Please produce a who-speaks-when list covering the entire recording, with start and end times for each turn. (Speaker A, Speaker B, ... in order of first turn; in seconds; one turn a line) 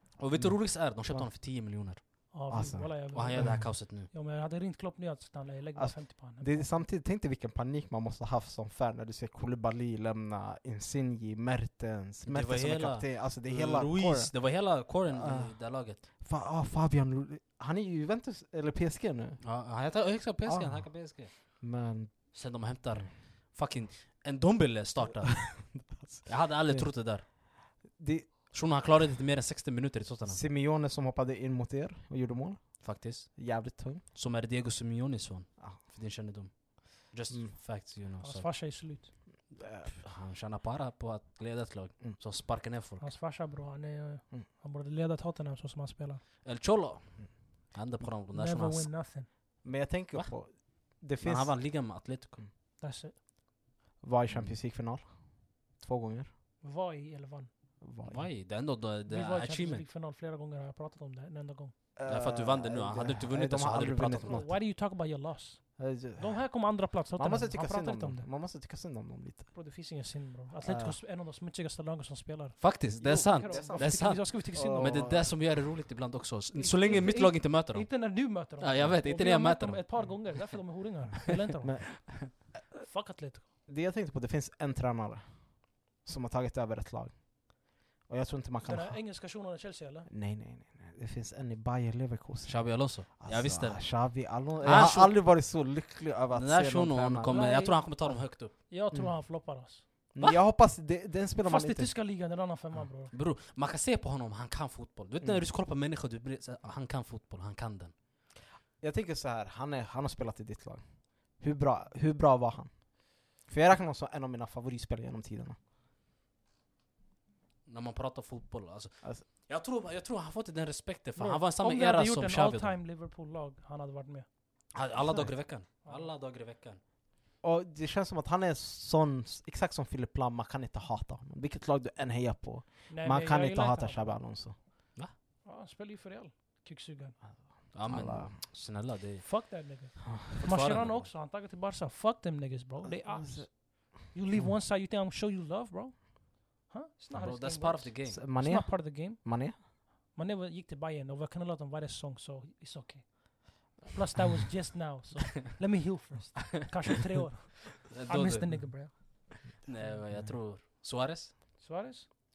Speaker A: 0.2-2.3
Speaker B: 0.4-1.3
Speaker C: 2.3-6.7
Speaker B: 2.5-3.6
Speaker A: 3.1-4.1
Speaker B: 5.8-19.4
Speaker A: 12.3-16.0
Speaker A: 19.4-21.6
Speaker B: 20.4-22.3
Speaker A: 22.3-27.2
Speaker B: 25.5-27.0
Speaker B: 27.9-28.5
Speaker A: 28.5-30.4
Speaker B: 30.2-34.0
Speaker A: 32.8-38.8
Speaker C: 38.2-39.1
Speaker B: 39.5-39.9
Speaker A: 39.8-43.1
Speaker C: 43.0-46.2
Speaker A: 46.4-48.9
Speaker C: 48.3-49.3
Speaker B: 49.6-51.7
Speaker A: 51.0-52.4
Speaker C: 52.8-53.1
Speaker B: 54.0-56.3
Speaker A: 54.3-54.5
Speaker C: 56.6-57.5
Speaker B: 57.8-58.3
Speaker A: 58.0-59.9
Speaker C: 59.1-61.7
Speaker B: 62.0-64.5
Speaker A: 62.0-64.5
Speaker C: 64.2-68.3
Speaker B: 65.8-66.6
Speaker B: 67.1-69.5
Speaker C: 69.5-75.1
Speaker B: 70.6-71.0
Speaker A: 72.6-80.5
Speaker B: 73.0-75.6
Speaker C: 76.5-82.2
Speaker B: 81.6-82.4
Speaker C: 82.8-83.5
Speaker B: 83.7-89.0
Speaker C: 88.6-90.1
Speaker B: 90.1-97.6
Speaker A: 92.5-95.3
Speaker A: 96.3-98.5
Speaker C: 97.2-100.4
Speaker B: 98.9-99.2
Speaker B: 100.1-102.0
Speaker C: 101.4-103.1
Speaker A: 103.1-107.9
Speaker B: 108.8-115.6
Speaker A: 117.7-122.8
Speaker C: 121.2-124.3
Speaker A: 124.7-126.8
Speaker C: 124.8-125.3
Speaker B: 125.0-125.3
Speaker B: 127.4-134.6
Speaker C: 132.9-134.2
Speaker C: 135.4-137.2
Speaker B: 137.5-138.3
Speaker A: 137.7-139.6
Speaker C: 139.2-159.9
Speaker A: 140.4-141.0
Speaker B: 142.8-143.5
Speaker A: 147.1-148.2
Speaker B: 148.1-149.6
Speaker A: 157.9-161.3
Speaker C: 161.6-162.1